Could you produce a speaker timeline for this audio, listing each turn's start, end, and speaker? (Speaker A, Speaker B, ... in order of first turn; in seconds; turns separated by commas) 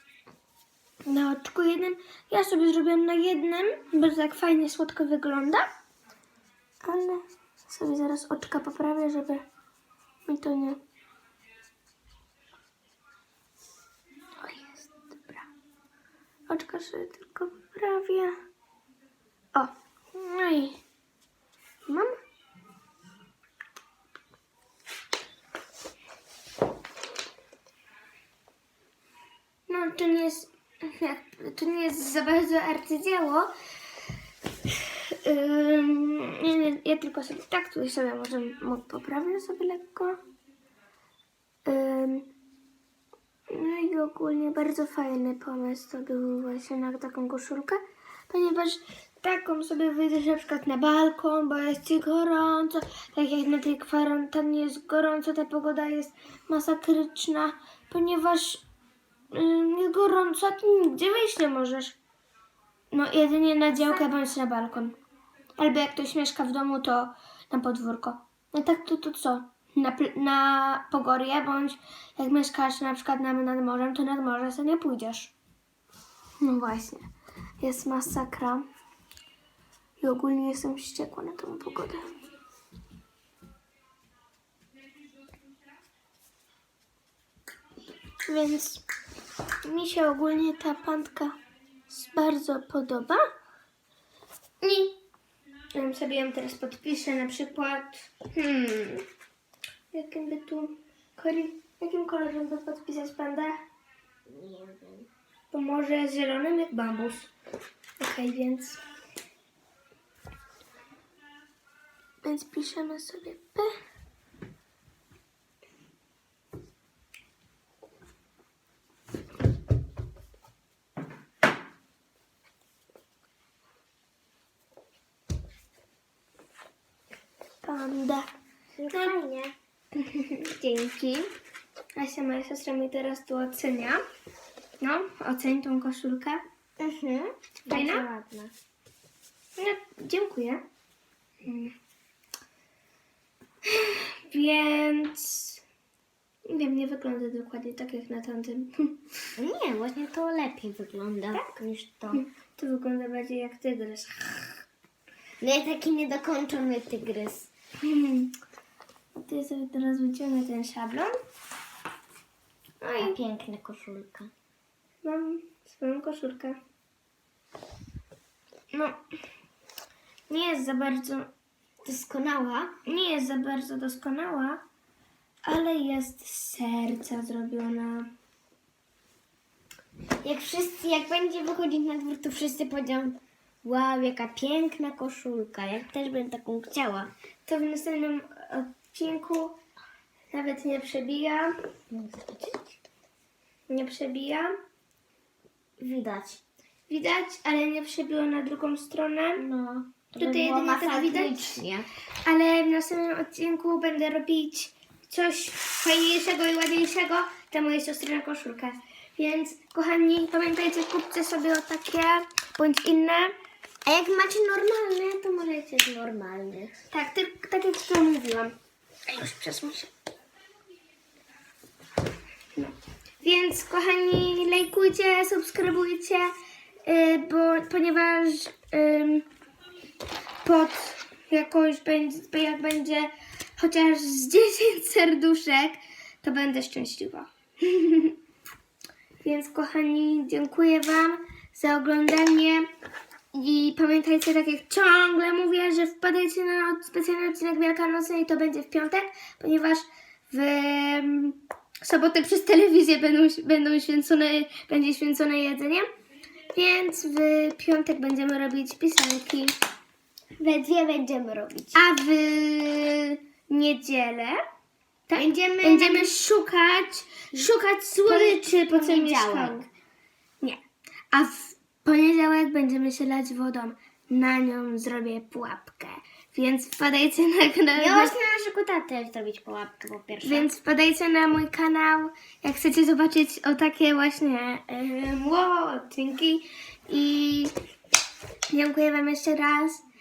Speaker A: 1.1-5.7, Speaker A: 6.8-9.4, Speaker A: 10.2-10.8, Speaker A: 14.4-15.4, Speaker A: 16.5-18.4, Speaker A: 19.5-20.8, Speaker A: 21.9-22.1, Speaker A: 29.7-33.5, Speaker A: 34.7-40.2, Speaker A: 41.6-42.3, Speaker A: 43.5-58.6, Speaker A: 59.3-62.0, Speaker A: 62.9-65.0, Speaker A: 65.6-75.3, Speaker A: 76.4-77.1, Speaker A: 77.6-78.7, Speaker A: 80.0-82.1, Speaker A: 88.2-88.8, Speaker A: 89.6-91.4, Speaker A: 91.9-93.2, Speaker A: 94.6-95.0, Speaker A: 95.7-99.0, Speaker A: 99.9-103.6, Speaker B: 104.3-105.1, Speaker A: 105.5-107.3, Speaker A: 108.0-108.8, Speaker A: 112.2-113.7, Speaker A: 127.6-128.3, Speaker B: 128.8-129.5, Speaker A: 128.9-129.2, Speaker A: 129.9-131.3, Speaker A: 131.9-134.0, Speaker A: 134.8-136.4, Speaker B: 136.8-138.5, Speaker A: 137.7-138.1, Speaker A: 139.6-140.6, Speaker A: 141.4-141.7, Speaker A: 143.6-145.6, Speaker A: 146.5-149.1, Speaker B: 149.4-152.2, Speaker A: 152.1-154.6, Speaker B: 155.4-157.5, Speaker A: 157.8-158.3, Speaker A: 159.2-161.1, Speaker A: 162.8-163.2, Speaker B: 163.0-164.3, Speaker A: 165.0-166.6, Speaker A: 168.7-169.0, Speaker A: 170.3-171.3, Speaker B: 171.8-172.7, Speaker A: 172.8-174.6, Speaker A: 175.4-178.1, Speaker B: 180.2-187.1, Speaker A: 187.4-189.6, Speaker A: 190.3-191.5, Speaker B: 191.9-192.8, Speaker A: 193.7-194.5, Speaker B: 195.8-196.4, Speaker A: 196.9-199.4, Speaker B: 199.4-201.9, Speaker A: 200.2-201.6, Speaker A: 202.2-213.3, Speaker B: 213.8-216.7, Speaker A: 216.9-218.6, Speaker A: 219.1-219.9, Speaker A: 223.2-226.3, Speaker A: 226.8-229.3, Speaker A: 230.4-238.1, Speaker A: 239.2-242.7, Speaker A: 243.3-255.9, Speaker A: 256.5-259.5, Speaker B: 260.4-261.8, Speaker A: 261.7-264.4, Speaker A: 265.1-269.7, Speaker B: 265.1-266.1, Speaker B: 268.0-269.6, Speaker A: 271.1-278.1, Speaker B: 277.8-280.5, Speaker A: 280.2-287.5, Speaker A: 288.5-289.8